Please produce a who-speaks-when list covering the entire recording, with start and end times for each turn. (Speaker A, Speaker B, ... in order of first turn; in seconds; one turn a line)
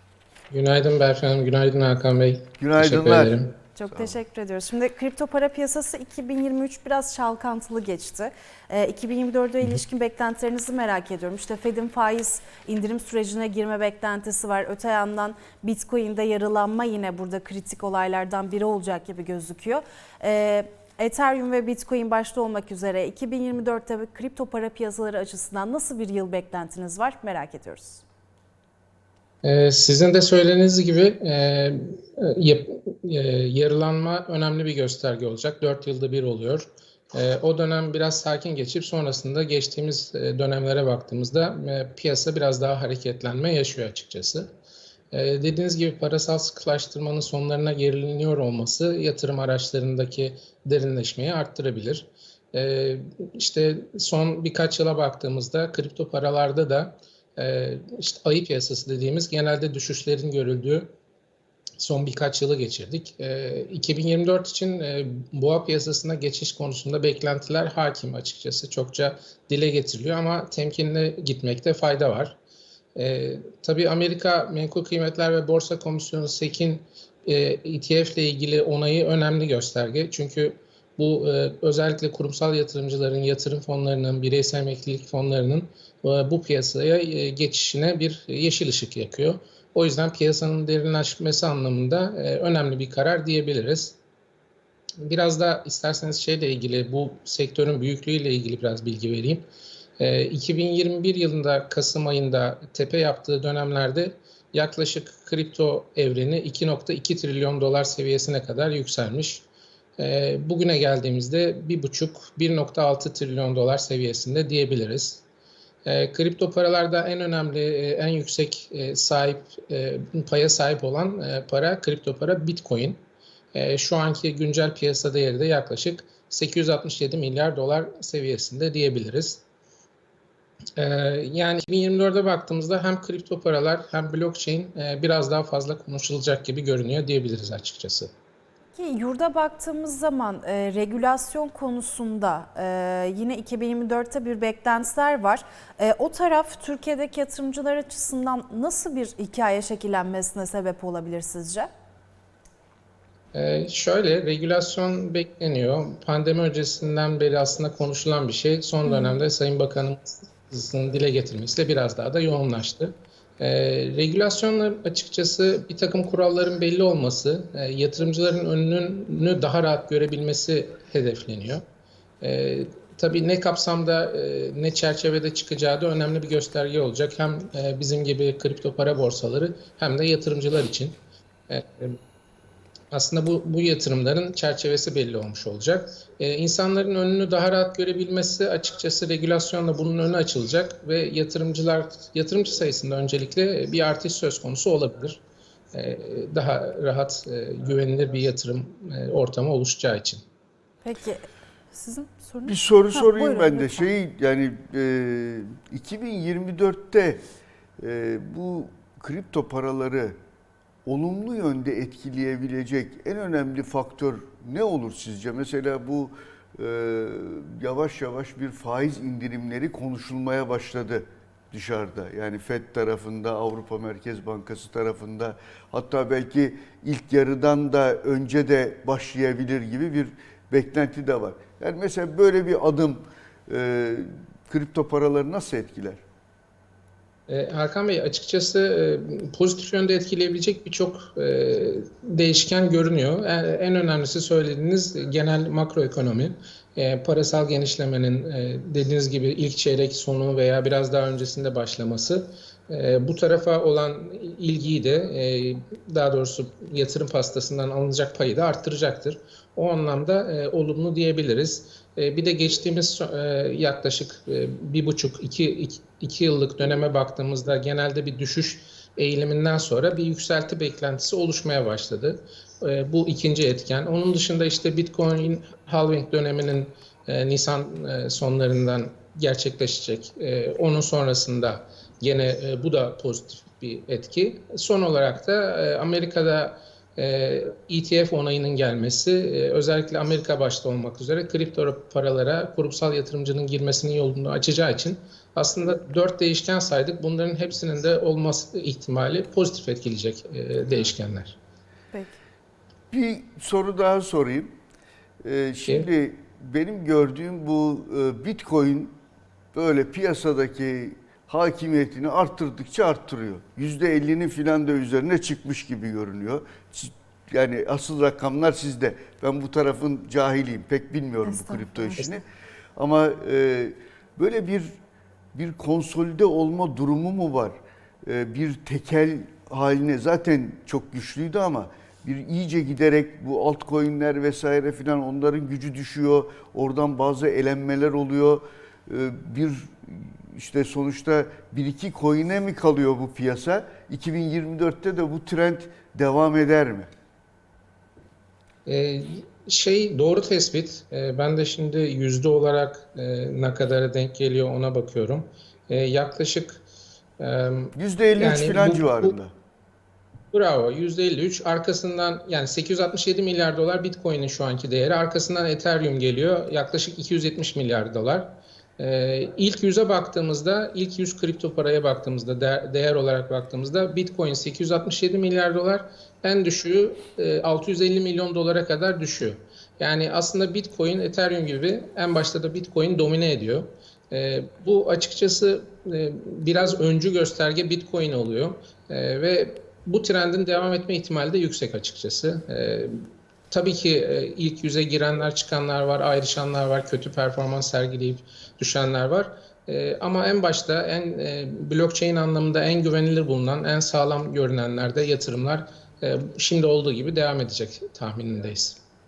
Speaker A: 0.5-3.5
Speaker B: 2.6-3.3
Speaker C: 3.8-28.0
Speaker B: 3.9-4.2
Speaker A: 29.4-44.5
Speaker A: 45.1-60.9
Speaker A: 61.8-72.4
Speaker A: 73.0-94.0
Speaker A: 95.0-99.5
Speaker A: 100.0-109.5
Speaker A: 110.0-115.2
Speaker A: 115.8-123.0
Speaker A: 123.5-129.4
Speaker A: 130.8-138.1
Speaker C: 138.8-151.7
Speaker A: 153.3-171.6
Speaker C: 158.9-159.2
Speaker A: 172.2-181.0
Speaker A: 181.5-182.0
Speaker A: 182.9-195.2
Speaker A: 195.7-200.2
Speaker C: 200.8-203.9
Speaker B: 202.5-207.2
Speaker B: 207.8-210.2
Speaker B: 210.9-236.0
Speaker A: 237.3-301.4
Speaker C: 301.9-302.2
Speaker B: 302.9-304.5
Speaker B: 305.2-308.9
Speaker B: 309.5-322.2
Speaker C: 321.2-322.1
Speaker B: 322.8-324.7
Speaker B: 325.3-346.9
Speaker A: 348.7-356.6
Speaker A: 357.2-359.2
Speaker B: 357.8-359.3
Speaker A: 360.3-408.8